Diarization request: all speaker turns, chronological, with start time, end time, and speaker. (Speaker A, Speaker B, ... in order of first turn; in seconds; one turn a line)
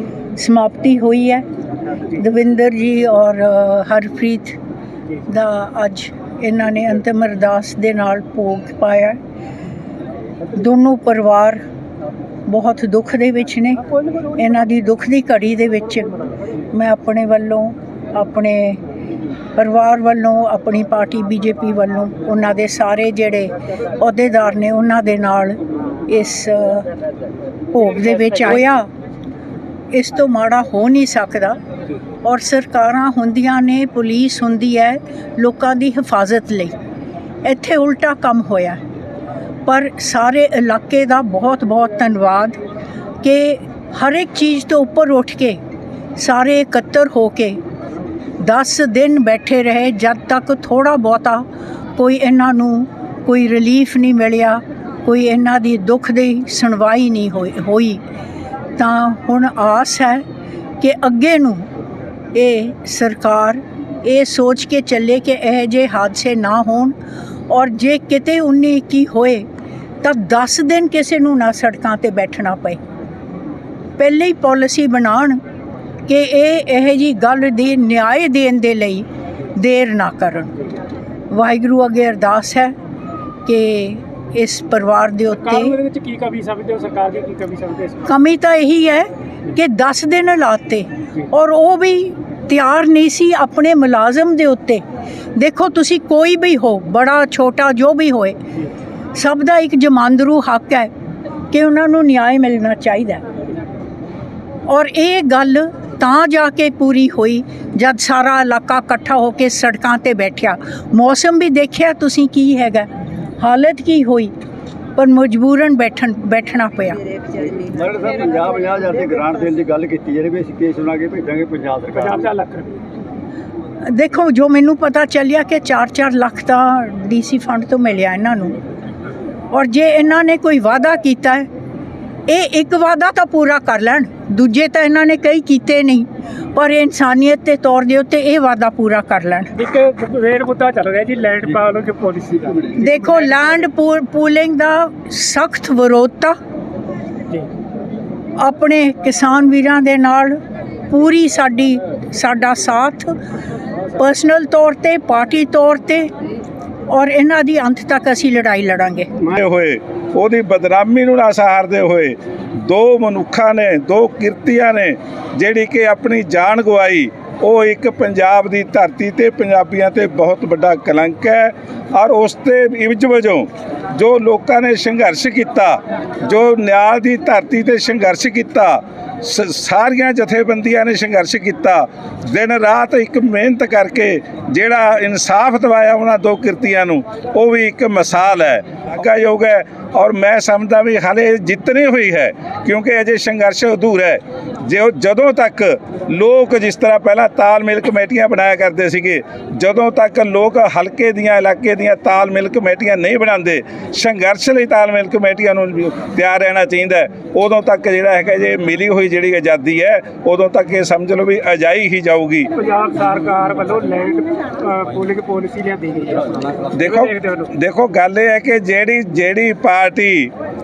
Speaker A: 0.3-1.4
Speaker A: 2.1-4.6
Speaker A: 5.2-9.2
Speaker A: 10.5-11.6
Speaker A: 12.5-18.8
Speaker A: 19.6-26.9
Speaker A: 27.7-28.9
Speaker A: 29.9-31.6
Speaker A: 32.2-36.8
Speaker A: 37.4-38.8
Speaker A: 39.6-42.6
Speaker A: 43.2-45.6
Speaker A: 46.1-47.6
Speaker A: 48.4-58.0
Speaker A: 58.8-60.2
Speaker A: 60.8-61.7
Speaker A: 62.3-66.9
Speaker A: 67.5-69.5
Speaker A: 70.0-72.8
Speaker A: 74.0-75.4
Speaker A: 76.1-80.5
Speaker A: 81.3-82.7
Speaker A: 83.4-85.8
Speaker B: 85.5-88.0
Speaker A: 88.0-94.8
Speaker A: 95.3-98.4
Speaker A: 99.2-100.9
Speaker A: 101.5-103.2
Speaker A: 104.7-112.9
Speaker A: 113.4-114.3
Speaker A: 115.0-117.0
Speaker C: 117.5-122.2
Speaker B: 122.0-122.8
Speaker A: 123.9-128.6
Speaker A: 129.5-131.5
Speaker A: 132.3-139.5
Speaker B: 139.6-142.8
Speaker A: 142.7-146.4
Speaker A: 148.4-150.4
Speaker A: 150.9-153.1
Speaker A: 153.9-156.1
Speaker A: 156.9-159.1
Speaker D: 159.2-212.5
Speaker B: 212.5-217.5
Speaker D: 216.8-220.3